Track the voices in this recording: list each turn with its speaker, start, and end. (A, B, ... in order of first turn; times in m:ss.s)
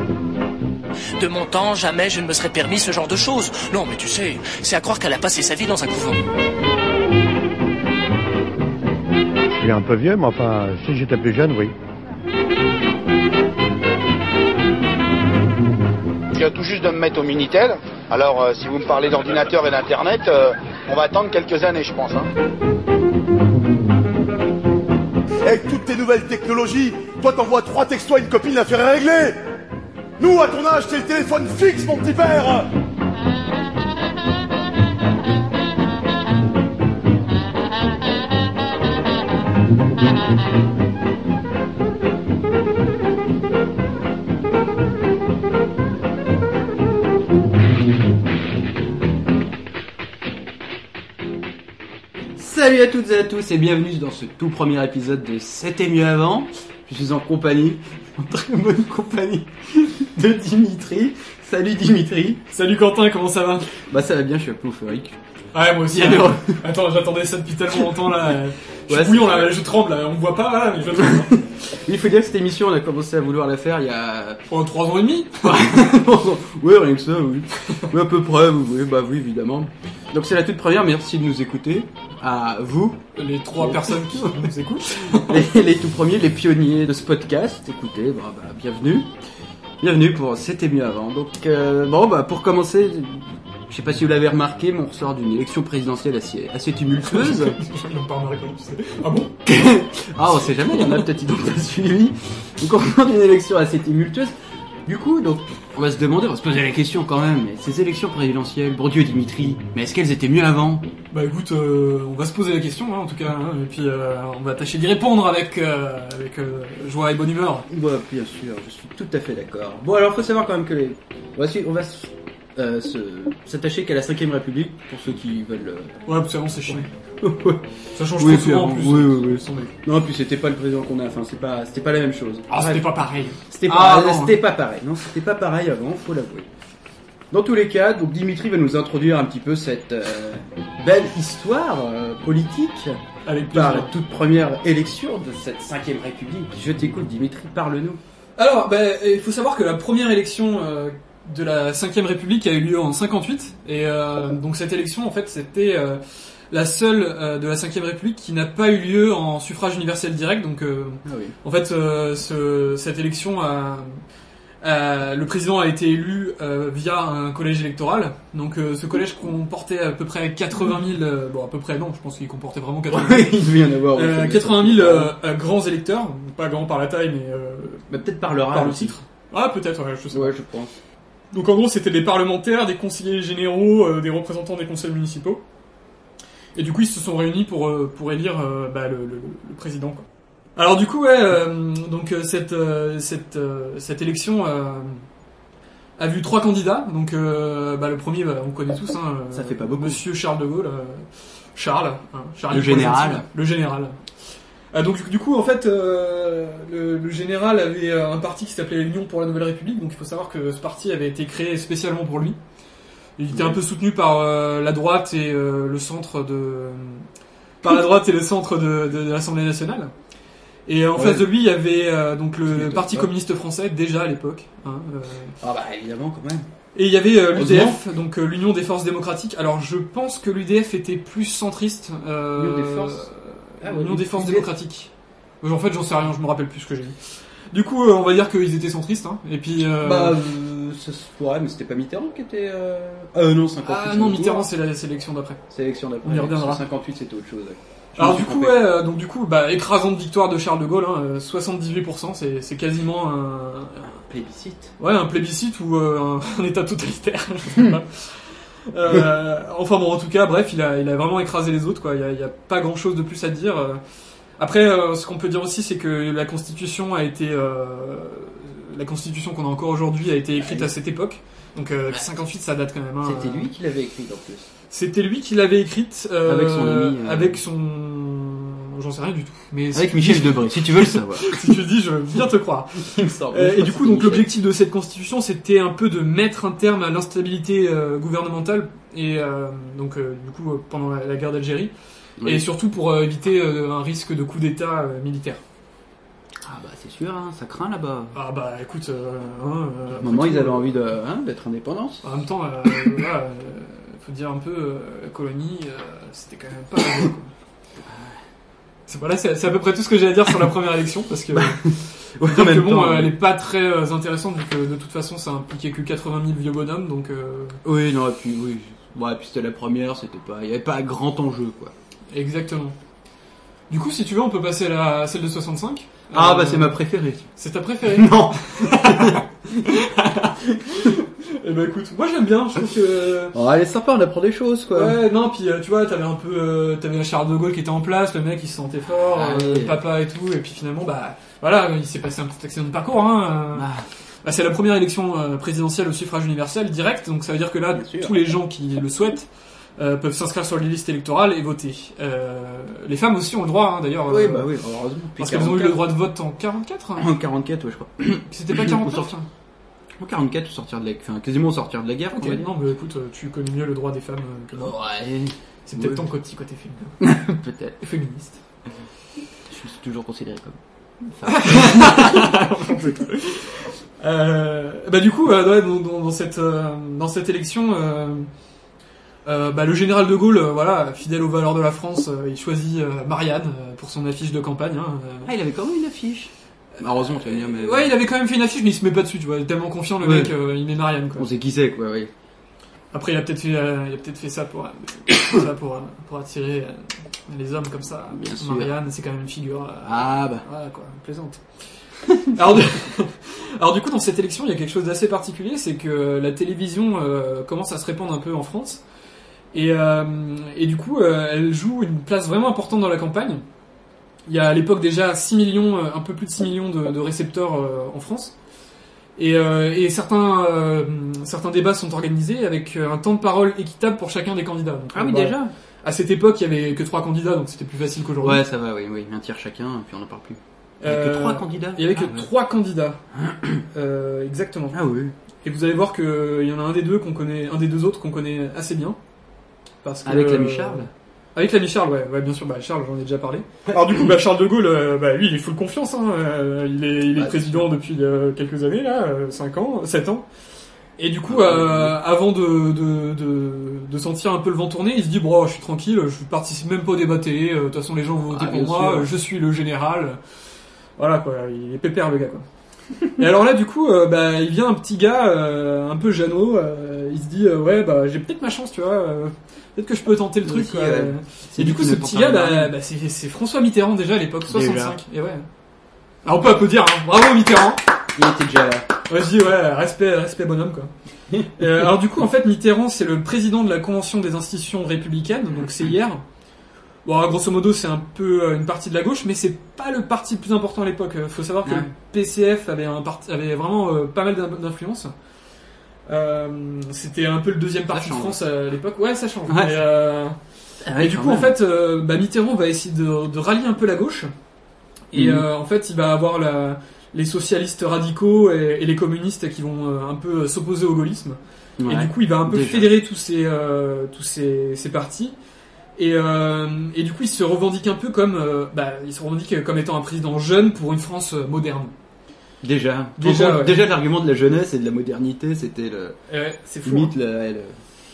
0:01.2-0:06.2 A
0:09.6-0:11.7 B
0:16.4-0:22.2 C
0:25.4-0:29.3 D
0:30.2-0:32.7 D
0:52.4-1:02.4 E
1:02.5-1:03.7 F
1:03.8-1:05.2 E
1:05.5-1:11.4 F
1:05.9-1:06.6 E
1:08.9-1:09.5 E
1:11.0-1:14.4 E
1:14.5-1:15.7 F
1:15.4-1:23.0 E
1:23.2-1:25.5 F
1:23.5-1:24.5 E
1:25.1-1:29.1 E
1:29.8-1:37.6 E
1:37.0-1:39.3 F
1:39.4-1:44.3 E
1:40.3-1:41.0 F
1:44.8-1:50.9 E
1:51.1-1:57.7 F
1:57.7-2:06.0 E
2:06.0-2:06.9 F
2:06.7-2:07.6 E
2:07.9-2:09.7 F
2:08.2-2:12.8 E
2:12.5-2:14.4 F
2:13.5-2:16.5 E
2:17.3-2:23.0 E
2:23.2-2:23.9 F
2:23.5-2:28.0 E
2:28.4-2:36.0 F
2:36.5-2:44.0 F
2:41.0-2:41.4 E
2:44.6-2:57.8 F
2:52.9-2:55.1 E
2:57.9-2:59.0 E
2:58.5-3:00.3 F
3:00.1-3:00.7 E
3:01.3-3:05.4 F
3:06.6-3:10.0 F
3:10.6-3:15.0 F
3:16.0-3:24.0 F
3:19.3-3:20.0 E
3:22.5-3:23.2 E
3:24.7-3:32.4 F
3:33.2-3:37.0 F
3:33.3-3:33.6 E
3:37.6-3:39.9 F
3:40.7-3:45.3 F
3:41.0-3:41.3 E
3:42.4-3:43.1 E
3:45.4-3:46.4 E
3:46.7-3:57.0 F
3:47.3-3:47.8 E
3:52.4-3:53.1 E
3:53.6-3:54.5 E
3:57.5-4:00.2 F
3:59.8-4:04.5 E
4:03.6-4:05.4 F
4:05.5-4:08.6 E
4:06.0-4:06.6 F
4:08.0-4:13.9 F
4:13.8-4:14.7 E
4:14.8-4:23.8 F
4:24.4-4:33.5 F
4:30.4-4:30.7 E
4:33.0-4:34.5 E
4:34.7-4:51.7 F
4:36.2-4:37.4 E
4:39.7-4:41.6 E
4:42.8-4:44.3 E
4:52.2-4:52.4 E
4:52.2-4:55.4 F
4:56.4-4:58.2 E
4:58.1-5:00.7 F
5:00.0-5:02.0 E
5:02.0-5:07.3 F
5:06.8-5:07.1 E
5:07.8-5:08.2 E
5:08.9-5:17.6 F
5:11.3-5:13.1 E
5:17.6-5:21.7 E
5:22.1-5:22.7 F
5:23.7-5:26.8 F
5:26.1-5:27.3 E
5:27.4-5:33.3 F
5:27.8-5:29.7 E
5:33.3-5:35.0 E
5:34.7-5:43.7 F
5:38.9-5:39.7 E
5:43.5-5:43.8 E
5:44.2-5:54.5 F
5:47.7-5:48.2 E
5:54.1-5:55.9 E
5:55.2-5:57.1 F
5:57.0-5:59.1 E
5:58.3-5:59.3 F
6:00.0-6:02.5 E
6:02.1-6:04.7 F
6:04.5-6:06.0 E
6:05.6-6:07.1 F
6:07.0-6:07.8 E
6:07.8-6:08.4 F
6:09.5-6:10.6 E
6:11.1-6:12.3 E
6:11.2-6:18.3 F
6:19.2-6:25.3 F
6:25.2-6:27.9 E
6:27.1-6:31.3 F
6:30.0-6:30.3 E
6:31.2-6:32.1 E
6:32.9-6:41.4 F
6:38.1-6:38.7 E
6:39.8-6:40.4 E
6:42.3-6:48.8 F
6:49.5-6:53.4 F
6:54.3-6:58.3 F
6:59.2-7:08.4 F
7:04.9-7:05.5 E
7:08.2-7:12.3 E
7:10.8-7:13.0 F
7:13.1-7:13.6 E
7:13.7-7:14.8 F
7:14.7-7:15.1 E
7:15.4-7:19.0 F
7:19.8-7:30.2 F
7:20.0-7:20.9 E
7:27.1-7:27.7 E
7:31.0-7:40.2 F
7:31.3-7:32.0 E
7:38.3-7:39.1 E
7:41.0-7:42.4 F
7:43.1-7:55.5 F
7:50.4-7:52.7 E
7:54.5-7:55.0 E
7:56.2-7:57.8 F
7:58.1-7:58.9 E
7:59.1-8:00.9 F
8:01.6-8:06.2 F
8:07.0-8:15.1 F
8:11.6-8:11.9 E
8:16.1-8:20.4 F
8:17.9-8:18.4 E
8:19.5-8:19.8 E
8:20.8-8:21.5 E
8:20.9-8:24.3 F
8:25.1-8:35.3 F
8:25.1-8:25.4 E
8:31.8-8:32.9 E
8:36.0-8:41.9 F
8:42.6-8:46.2 E
8:43.2-8:43.8 F
8:46.3-8:47.1 F
8:46.8-8:47.8 E